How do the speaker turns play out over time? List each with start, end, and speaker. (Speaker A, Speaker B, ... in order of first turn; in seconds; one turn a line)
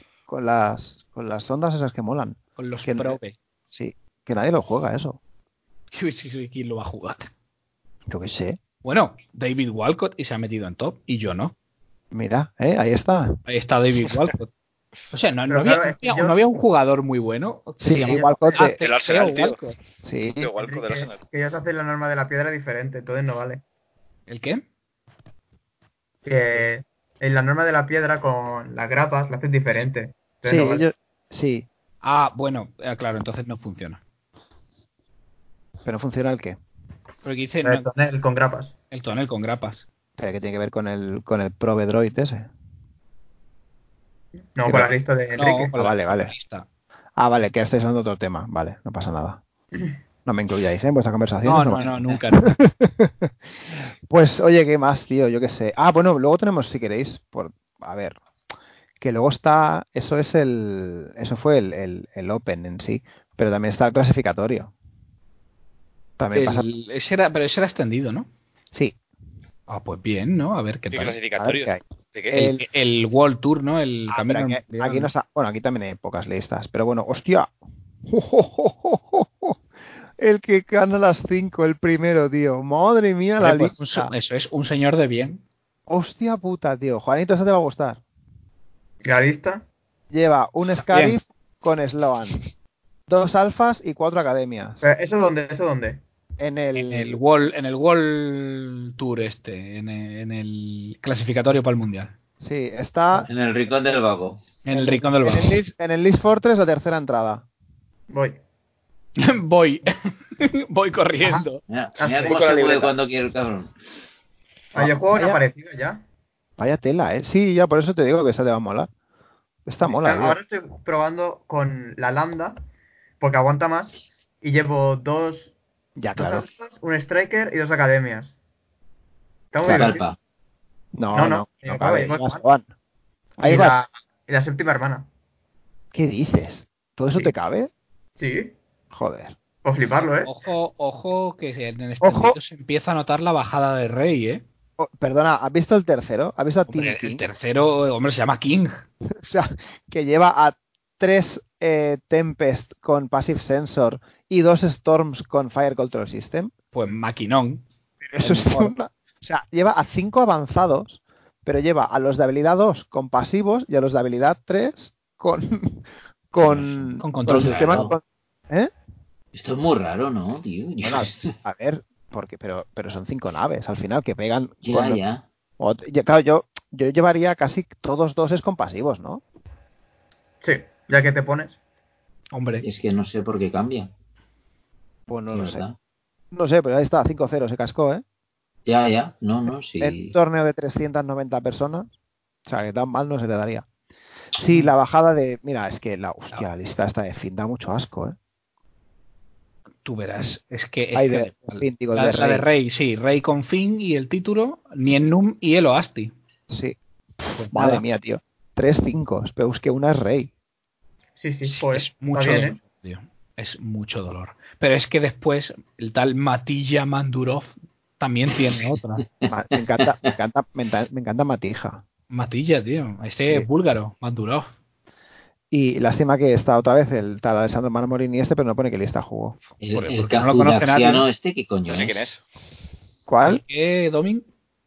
Speaker A: 0.3-3.2
Speaker B: 2.6-3.4
Speaker A: 3.7-5.2
Speaker B: 5.9-7.3
Speaker A: 8.1-8.6
Speaker B: 8.8-11.5
Speaker A: 12.1-13.4
Speaker B: 13.5-14.5
Speaker B: 15.1-19.8
Speaker C: 15.5-16.4
Speaker A: 17.8-18.8
Speaker C: 18.0-18.7
Speaker D: 18.8-19.6
Speaker A: 20.0-20.5
Speaker D: 20.4-21.2
Speaker C: 20.6-23.6
Speaker B: 24.3-24.6
Speaker C: 26.2-30.9
Speaker A: 30.4-31.6
Speaker B: 32.0-34.0
Speaker A: 35.8-36.6
Speaker B: 37.2-37.9
Speaker C: 37.6-38.7
Speaker B: 38.9-39.9
Speaker A: 40.2-42.4
Speaker C: 44.5-45.7
Speaker A: 44.6-44.9
Speaker B: 45.4-46.6
Speaker A: 45.7-46.3
Speaker A: 47.2-49.4
Speaker A: 50.2-58.2
Speaker B: 51.4-52.6
Speaker A: 59.0-64.7
Speaker A: 66.2-66.7
Speaker B: 66.3-68.3
Speaker B: 69.7-71.2
Speaker D: 70.9-72.4
Speaker A: 71.4-71.8
Speaker B: 72.3-75.1
Speaker A: 72.3-72.6
Speaker A: 74.1-77.5
Speaker A: 78.0-79.5
Speaker A: 80.2-84.1
Speaker B: 83.4-85.4
Speaker A: 85.9-88.0
Speaker C: 89.0-89.6
Speaker A: 90.1-92.5
Speaker B: 90.9-91.2
Speaker A: 93.1-94.8
Speaker C: 94.8-96.0
Speaker A: 96.4-97.2
Speaker B: 96.7-102.1
Speaker A: 102.4-103.3
Speaker E: 103.2-104.4
Speaker B: 104.6-105.6
Speaker A: 104.7-107.4
Speaker C: 108.1-108.4
Speaker B: 109.2-111.6
Speaker A: 111.2-111.5
Speaker E: 111.7-113.7
Speaker C: 112.0-112.4
Speaker D: 112.2-112.9
Speaker A: 114.7-115.4
Speaker C: 114.7-116.0
Speaker A: 116.6-118.9
Speaker A: 119.7-120.4
Speaker C: 119.8-122.6
Speaker C: 123.2-125.5
Speaker A: 126.0-126.5
Speaker C: 126.1-128.3
Speaker C: 129.5-130.0
Speaker E: 129.6-130.2
Speaker A: 130.9-132.7
Speaker C: 131.1-132.4
Speaker A: 133.4-133.8
Speaker C: 133.4-135.1
Speaker A: 135.9-137.7
Speaker C: 138.2-138.5
Speaker A: 138.9-139.3
Speaker C: 139.6-140.3
Speaker B: 140.2-144.4
Speaker A: 142.0-142.4
Speaker A: 144.8-147.2
Speaker B: 146.7-148.8
Speaker A: 149.2-156.5
Speaker B: 156.7-157.6
Speaker A: 158.0-168.7
Speaker B: 158.2-158.7
Speaker E: 166.5-167.9
Speaker B: 167.0-167.9
Speaker E: 169.3-171.3
Speaker A: 170.8-175.0
Speaker E: 174.6-175.2
Speaker A: 175.6-179.2
Speaker C: 180.4-181.6
Speaker B: 182.3-182.7
Speaker E: 182.6-183.9
Speaker A: 185.1-185.6
Speaker E: 185.3-185.8
Speaker A: 186.3-188.0
Speaker E: 188.7-190.1
Speaker A: 189.8-191.9
Speaker A: 192.4-193.7
Speaker A: 194.3-198.2
Speaker B: 199.8-206.1
Speaker A: 200.9-202.4
Speaker A: 206.5-210.3
Speaker B: 207.3-207.8
Speaker C: 211.2-212.6
Speaker B: 211.4-219.1
Speaker A: 219.3-221.8
Speaker E: 219.8-220.1
Speaker B: 222.1-224.5
Speaker A: 223.2-223.5
Speaker A: 225.5-229.9
Speaker E: 229.6-232.0
Speaker B: 229.7-231.1
Speaker D: 231.7-232.2
Speaker A: 233.1-233.4
Speaker B: 233.2-234.2